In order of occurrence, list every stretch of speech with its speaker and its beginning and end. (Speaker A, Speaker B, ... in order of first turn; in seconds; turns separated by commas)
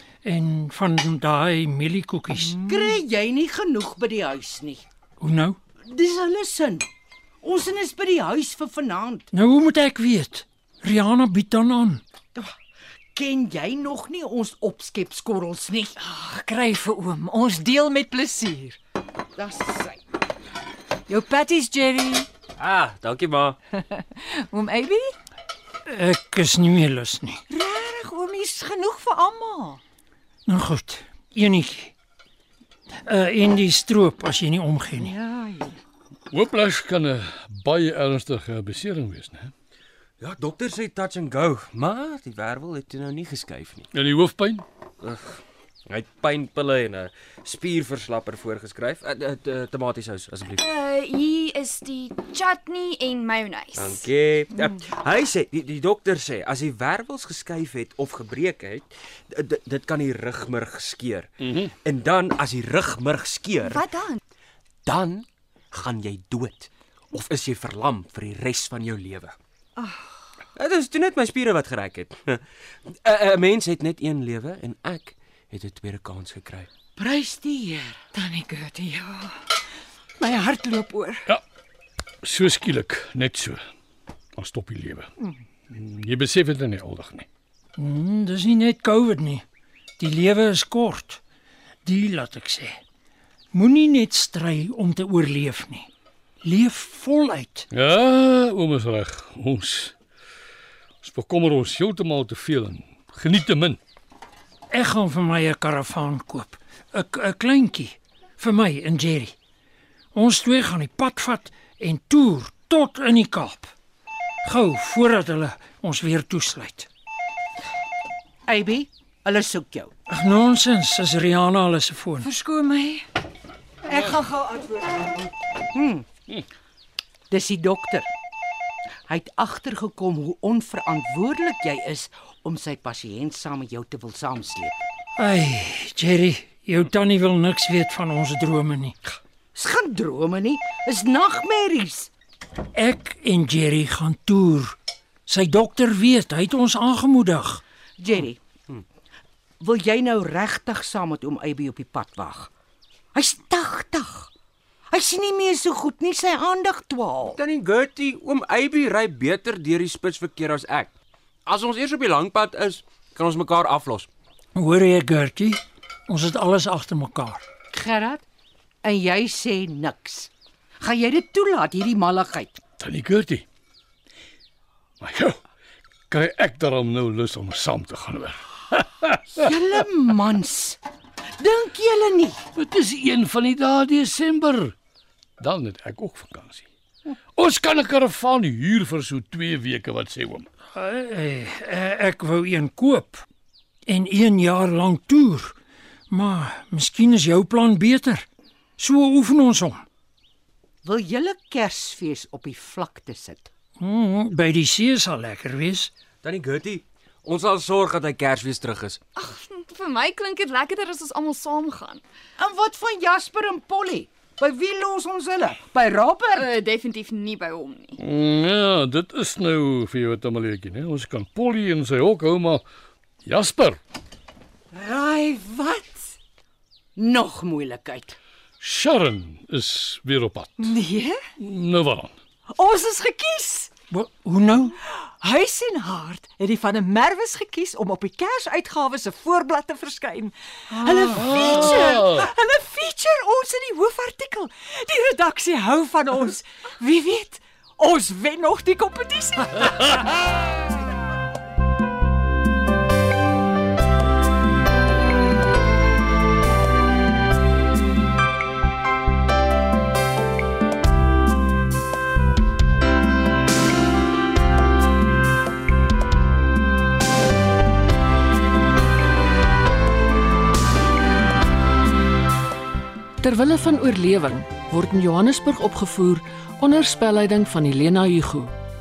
Speaker A: 0.2-2.6, Speaker B: 2.3-4.8, Speaker A: 5.2-5.6, Speaker B: 5.8-6.8, Speaker B: 7.4-9.3, Speaker A: 9.3-12.0, Speaker B: 13.1-15.9, Speaker C: 16.0-18.8, Speaker B: 19.4-20.0, Speaker C: 21.1-22.3, Speaker D: 22.6-23.6, Speaker C: 23.9-25.1, Speaker A: 25.9-27.4, Speaker C: 27.5-29.8, Speaker A: 30.5-31.9, Speaker A: 33.0-35.1, Speaker C: 35.0-35.8, Speaker E: 36.3-39.5, Speaker D: 40.2-43.9, Speaker E: 43.9-44.6, Speaker D: 45.0-50.6, Speaker F: 50.5-54.1, Speaker D: 53.7-63.9, Speaker F: 63.6-64.2, Speaker D: 64.8-69.3, Speaker D: 70.5-76.7, Speaker B: 77.0-78.0, Speaker C: 78.1-79.3, Speaker C: 80.2-81.3, Speaker E: 82.2-83.6, Speaker E: 84.4-85.1, Speaker E: 85.7-87.3, Speaker A: 87.8-89.4, Speaker A: 90.0-91.2, Speaker A: 91.8-92.8, Speaker A: 93.5-95.9, Speaker A: 96.4-97.7, Speaker E: 97.7-99.9, Speaker E: 101.0-103.8, Speaker A: 104.7-109.4, Speaker A: 110.1-113.7, Speaker A: 114.4-116.9, Speaker B: 118.5-119.9, Speaker A: 120.1-122.3, Speaker C: 122.2-123.0, Speaker C: 123.9-125.1, Speaker B: 125.7-126.0, Speaker B: 127.3-128.1, Speaker B: 129.1-134.7, Speaker A: 135.2-139.0, Speaker B: 139.5-142.1, Speaker A: 142.7-147.6, Speaker B: 148.0-148.4, Speaker B: 149.6-152.5, Speaker B: 153.1-154.3, Speaker B: 154.9-157.4, Speaker D: 157.4-160.9, Speaker D: 161.4-164.1, Speaker A: 164.5-167.4, Speaker B: 167.7-168.2, Speaker B: 168.8-172.6, Speaker E: 172.8-173.4, Speaker E: 175.0-175.4, Speaker E: 176.1-179.3, Speaker B: 179.4-180.8, Speaker B: 181.4-182.4, Speaker E: 182.6-184.7, Speaker E: 185.4-186.7, Speaker E: 187.4-190.5, Speaker A: 190.7-193.2, Speaker A: 193.9-195.6, Speaker A: 196.1-198.3, Speaker A: 198.8-199.8, Speaker B: 200.8-203.5, Speaker A: 203.8-205.9, Speaker D: 206.2-209.0, Speaker F: 209.2-212.0, Speaker B: 212.4-216.5, Speaker F: 216.3-217.9, Speaker E: 218.0-222.6, Speaker E: 223.2-223.8, Speaker C: 224.7-226.0, Speaker B: 226.9-228.2, Speaker E: 228.6-230.7, Speaker C: 230.6-231.2, Speaker E: 231.4-232.1, Speaker C: 232.5-233.7, Speaker A: 233.9-234.7, Speaker C: 234.8-250.0, Speaker E: 240.8-242.3, Speaker G: 273.2-278.5